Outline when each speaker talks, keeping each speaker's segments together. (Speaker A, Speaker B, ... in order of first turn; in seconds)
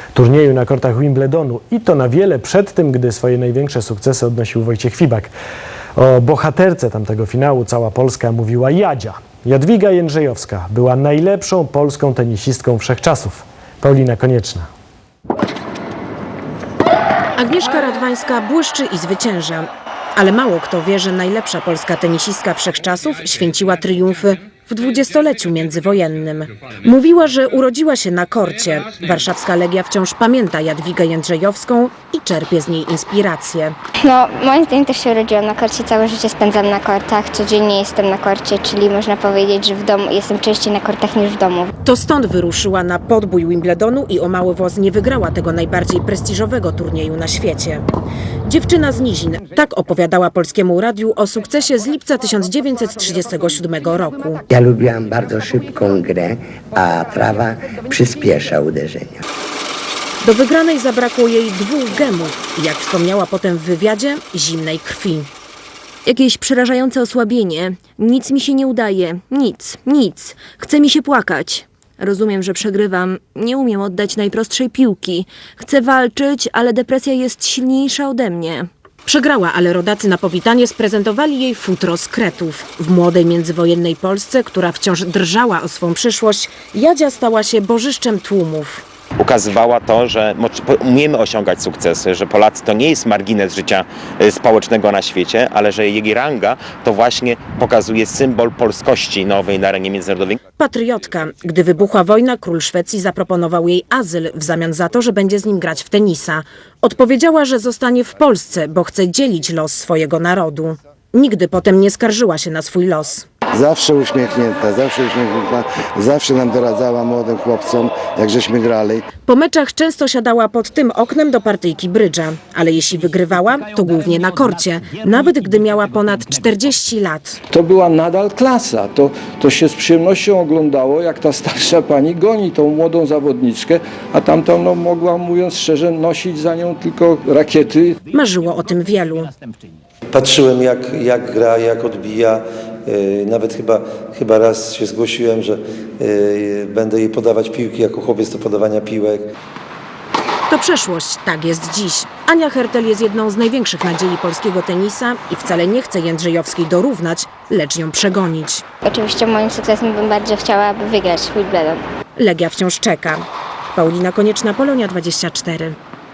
Speaker A: 0.1-5.3, 6.0-14.7
Speaker B: 17.4-33.8, 41.8-47.8, 48.5-54.4, 60.2-65.3, 79.1-88.8, 100.6-113.3, 119.3-127.4, 138.1-139.3, 150.5-158.6, 162.2-163.2, 163.7-165.8
Speaker C: 34.0-41.7, 158.8-161.8
Speaker D: 54.5-59.2
Speaker E: 66.1-78.7
Speaker F: 89.2-100.4
Speaker G: 113.5-119.0
Speaker H: 127.5-138.0
Speaker I: 140.1-149.3